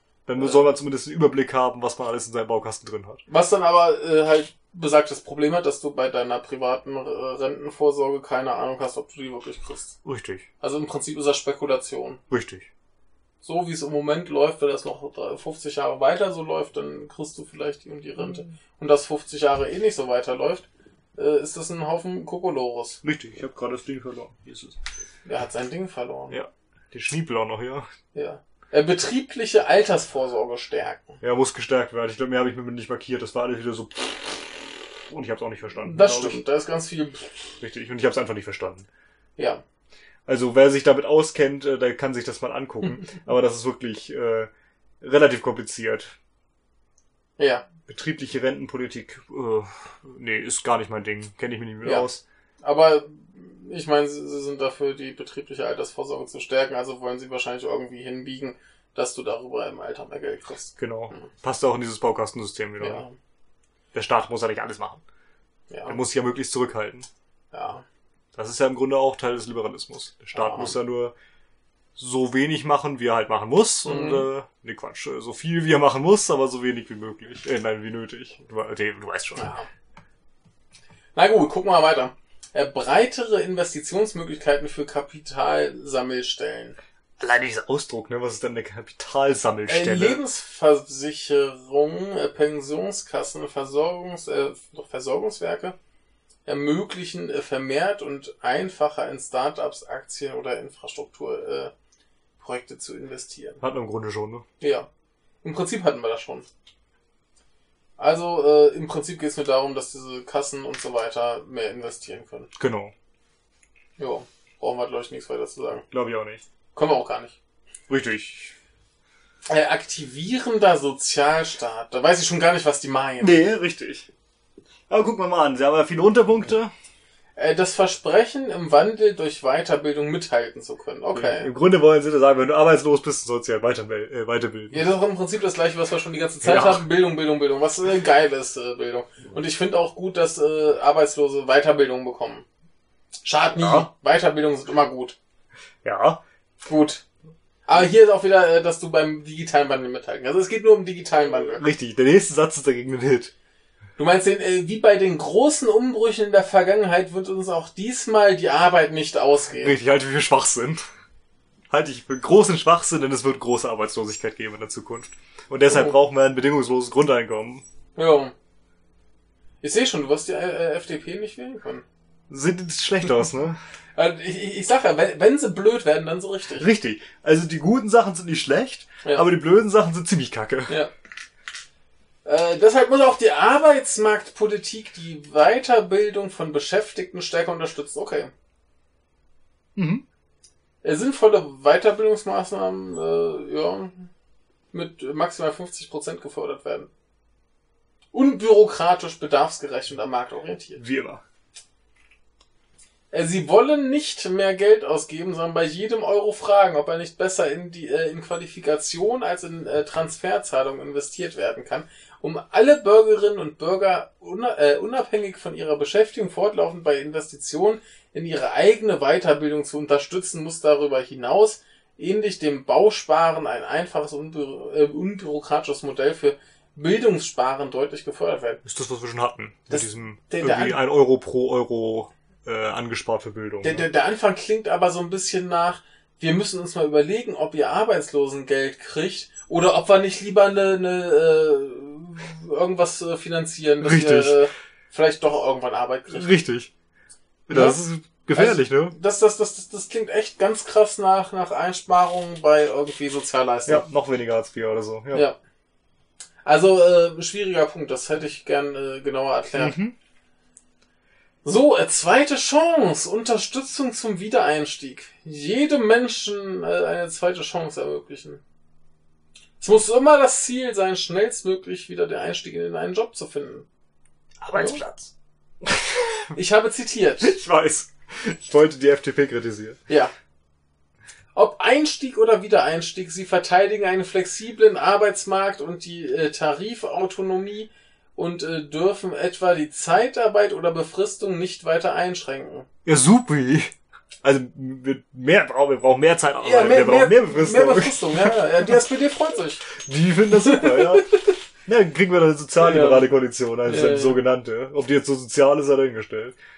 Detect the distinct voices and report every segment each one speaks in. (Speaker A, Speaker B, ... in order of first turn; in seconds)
Speaker A: 0.3-3.2, 10.0-10.5, 12.3-12.7, 18.2-18.5, 23.0-24.8, 26.3-27.9, 31.2-36.4, 37.6-38.9, 40.3-44.5, 45.0-46.1, 47.8-52.2, 60.8-63.0, 63.9-65.0, 65.9-67.1, 68.3-71.1, 72.0-79.5, 87.2-90.2, 103.6-104.4, 112.6-112.9, 115.9-116.4, 117.9-118.5, 123.2-124.1, 124.9-126.7, 131.1-134.8, 136.4-136.8, 143.6-143.9, 145.8-146.2, 151.4-153.3, 159.6-160.8, 161.7-167.7, 172.3-173.6, 176.6-180.8, 189.8-190.0, 200.8-201.2, 228.7-233.9, 243.8-244.4, 246.1-246.7, 247.5-248.9, 253.7-255.2, 259.6-259.9, 274.4-276.3, 277.2-279.8, 292.9-298.8, 299.7-301.1, 301.7-306.4
Speaker B: 0.4-0.7, 3.3-10.0, 10.6-12.2, 13.4-20.7, 21.2-23.0, 25.2-26.4, 28.1-31.2, 35.8-37.5, 39.4-39.6, 47.4-47.7, 51.8-52.1, 52.6-61.3, 62.8-63.1, 65.7-66.0, 67.5-67.8, 70.3-70.7, 73.8-74.3, 79.3-79.7, 81.2-86.8, 89.7-95.8, 96.5-101.7, 102.4-103.6, 104.6-104.9, 105.4-106.5, 108.0-112.5, 114.0-115.8, 116.7-117.4, 119.5-123.4, 127.4-131.5, 134.7-142.4, 143.2-145.2, 146.7-147.0, 147.7-151.6, 154.0-159.8, 165.7-165.9, 168.0-168.3, 169.6-171.8, 174.0-176.7, 182.2-188.3, 190.8-194.1, 194.7-196.9, 198.1-200.8, 203.1-228.6, 229.7-230.8, 233.6-246.3, 247.5-247.8, 248.3-253.9, 256.4-259.8, 261.4-268.4, 269.6-273.7, 274.5-274.8, 276.4-277.4, 279.9-280.1, 281.4-292.7, 296.4-299.7, 300.3-301.3, 302.6-303.1, 303.7-304.2